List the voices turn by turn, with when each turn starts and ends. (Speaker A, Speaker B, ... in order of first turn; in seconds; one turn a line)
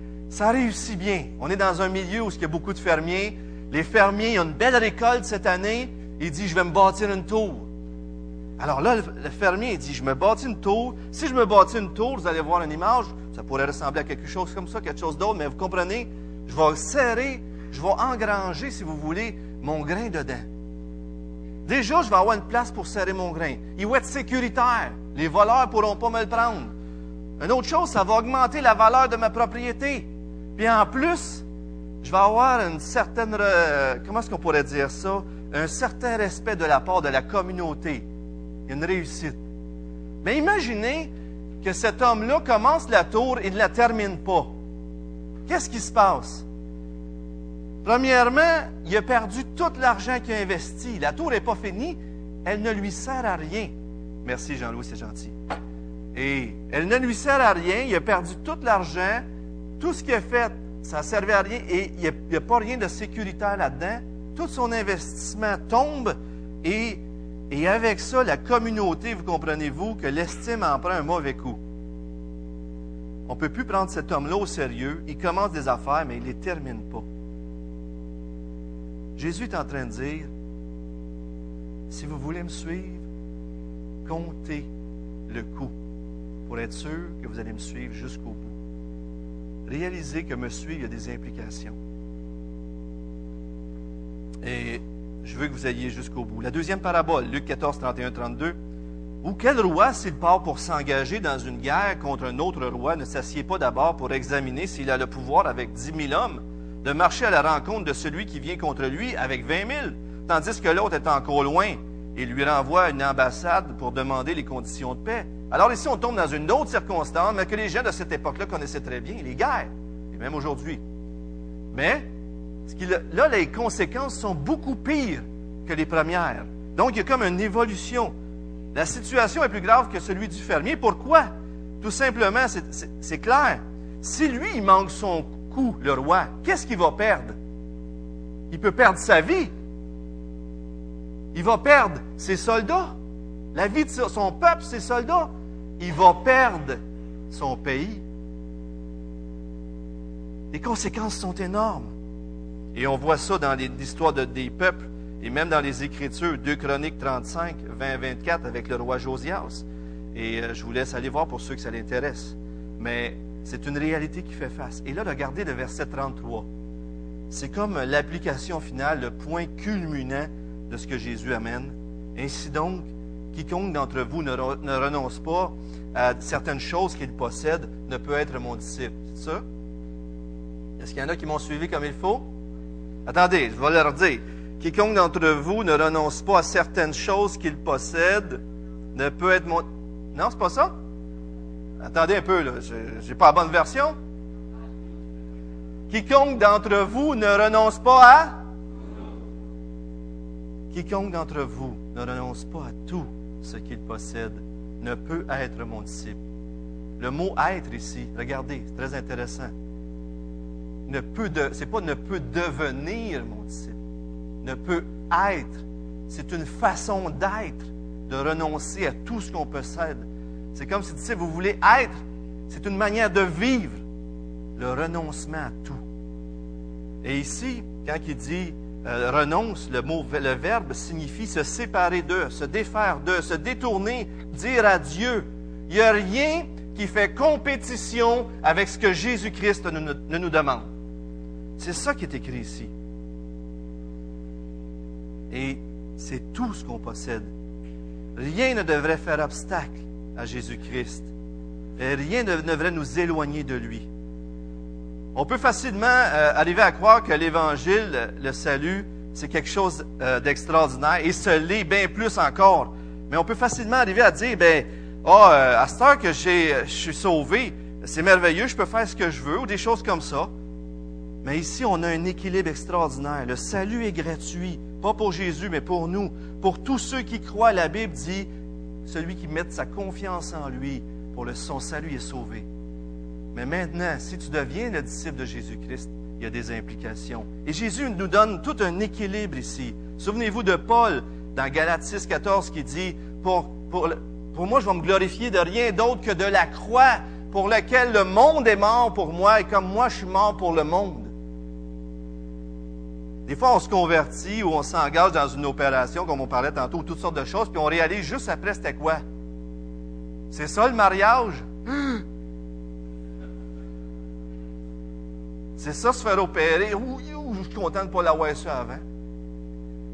Speaker A: 0.3-7.7
Speaker A: 8.6-20.5
Speaker A: 21.6-26.7
Speaker A: 27.4-31.4
Speaker A: 32.0-38.0
Speaker A: 38.7-39.4
Speaker A: 40.2-41.1
Speaker A: 41.6-44.5
Speaker A: 45.5-46.5
Speaker A: 47.8-53.7
Speaker A: 54.2-55.3
Speaker A: 56.1-59.2
Speaker A: 59.8-71.6
Speaker A: 73.3-77.0
Speaker A: 79.2-80.3
Speaker A: 81.9-83.0
Speaker A: 84.0-84.7
Speaker A: 85.3-85.7
Speaker A: 86.5-88.5
Speaker A: 89.7-91.8
Speaker A: 94.4-98.5
Speaker A: 99.2-120.8
Speaker A: 121.7-122.0
Speaker A: 122.7-128.1
Speaker A: 128.7-131.3
Speaker A: 131.8-137.3
Speaker A: 138.5-139.5
Speaker A: 141.3-142.9
Speaker A: 143.5-146.8
Speaker A: 147.3-148.0
Speaker A: 150.5-151.9
Speaker A: 152.7-166.5
Speaker A: 167.3-179.4
Speaker A: 180.8-182.2
Speaker A: 183.1-188.4
Speaker A: 188.9-190.7
Speaker A: 191.8-193.9
Speaker A: 195.9-198.3
Speaker A: 200.7-206.2
Speaker A: 207.0-209.5
Speaker A: 210.9-213.8
Speaker A: 214.4-221.9
Speaker A: 222.5-223.8
Speaker A: 224.6-225.8
Speaker A: 227.0-240.7
Speaker A: 241.6-242.7
Speaker A: 245.3-247.3
Speaker A: 248.2-251.1
Speaker A: 251.8-253.9
Speaker A: 255.2-270.3
Speaker A: 271.2-278.3
Speaker A: 278.9-282.5
Speaker A: 283.3-301.1
Speaker A: 303.3-309.0
Speaker A: 310.3-312.0
Speaker A: 315.6-318.8